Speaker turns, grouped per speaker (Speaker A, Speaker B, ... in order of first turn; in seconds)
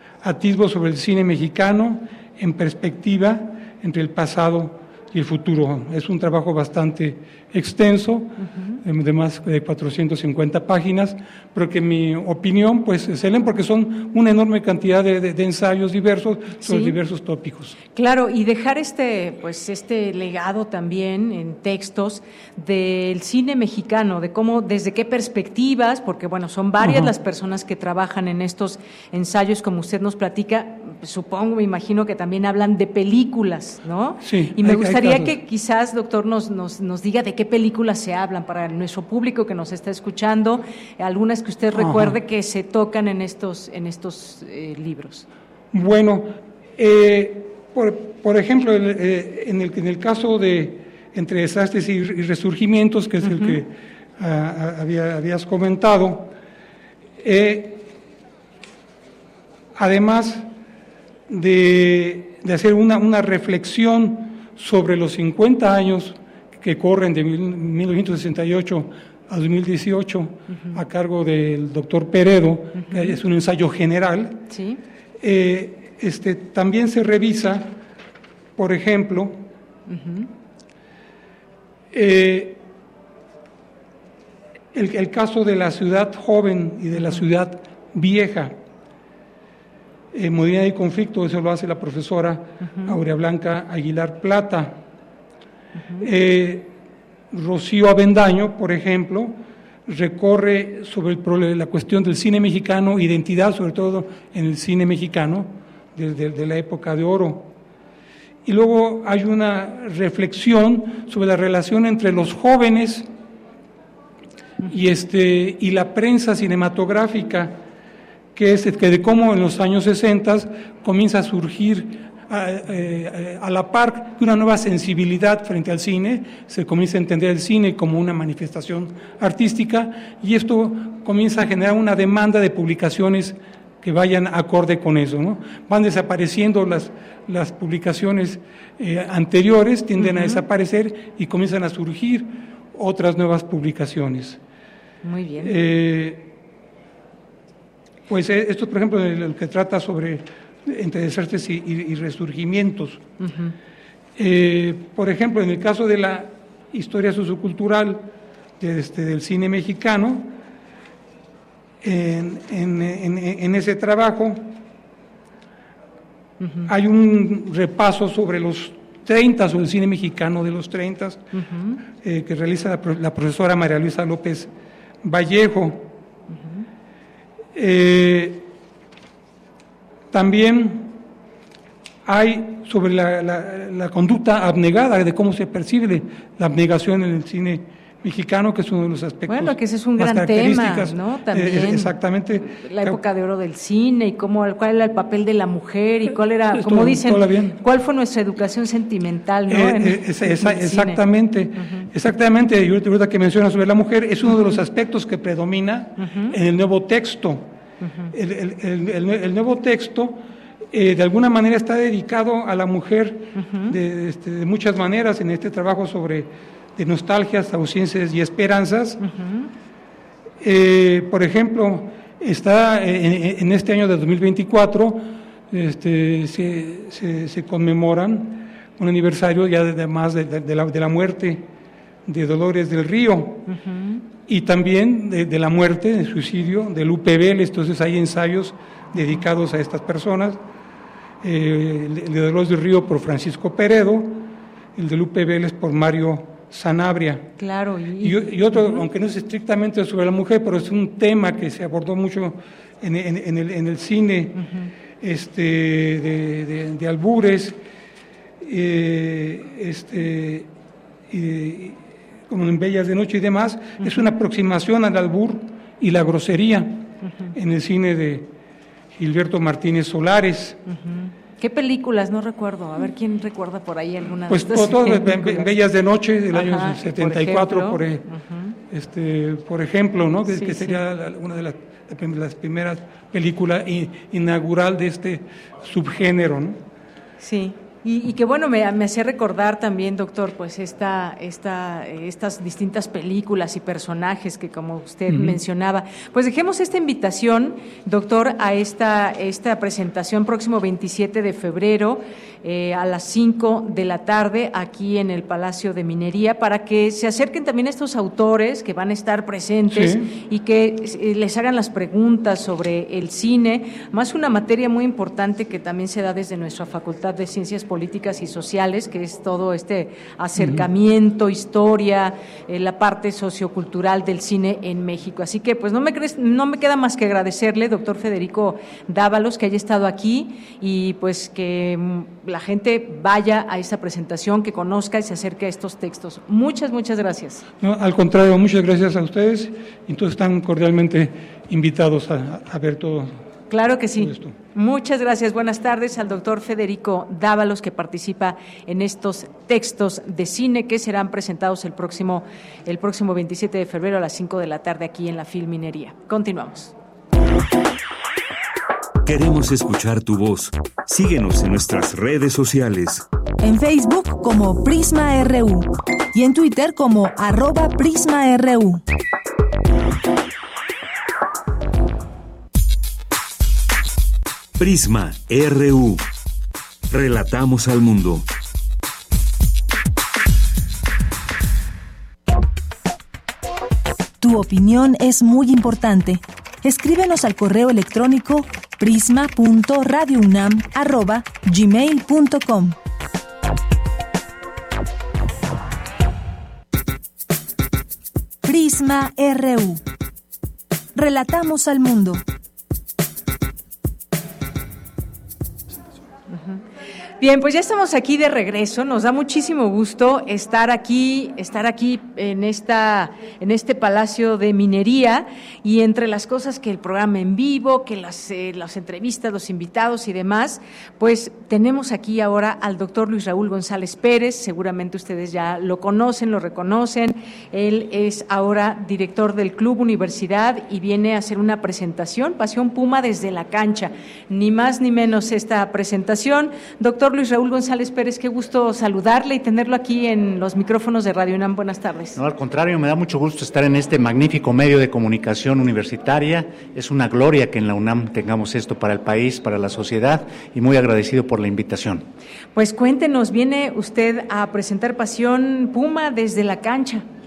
Speaker A: 0.2-8.3, 8.8-17.8, 26.8-27.1, 34.2-35.4, 41.7-42.2, 45.7-56.3, 57.2-57.8, 59.8-60.5, 61.3-74.4, 75.2-77.7, 78.6-79.4, 81.9-82.6, 84.7-88.6, 90.1-94.8, 96.0-96.7, 97.3-99.3, 99.9-107.5, 108.5-113.1, 114.7-117.6, 118.3-144.4, 145.4-146.3, 148.1-153.0, 154.2-158.1, 158.6-160.3, 161.8-164.5, 166.7-171.2, 172.0-174.5, 175.0-175.9, 177.6-178.5, 180.1-180.9, 182.1-193.0, 196.5-197.6, 199.5-207.4, 208.1-210.2, 210.7-219.0, 220.4-231.4, 232.1-233.4, 234.3-240.4, 241.2-244.2, 244.8-247.2, 248.0-254.4, 255.0-257.6, 258.4-260.5, 261.1-261.8, 262.3-268.3, 268.9-270.6, 274.3-278.0, 278.7-286.6, 295.1-295.4, 309.7-310.1, 320.4-320.7, 337.6-343.2, 344.0-344.4
Speaker B: 8.5-8.8, 16.6-17.0, 17.9-45.3, 53.2-53.6, 72.8-73.2, 74.5-74.8, 79.9-80.3, 92.7-93.0, 95.8-96.0, 140.0-140.4, 145.0-145.6, 153.2-153.5, 166.4-166.7, 171.3-171.8, 176.3-176.6, 189.3-201.0, 201.6-201.9, 206.0-206.3, 213.4-213.8, 219.0-219.4, 233.5-234.0, 247.4-248.8, 267.1-267.3, 270.7-275.6, 276.3-278.5, 280.3-280.8, 287.2-337.4, 343.5-356.7, 406.3-406.6, 407.2-442.2, 452.6-457.1
Speaker C: 359.1-363.1, 374.6-376.0, 376.9-378.3
Speaker D: 363.4-368.8, 384.2-392.8, 398.4-399.8, 400.9-402.2
Speaker E: 442.1-452.1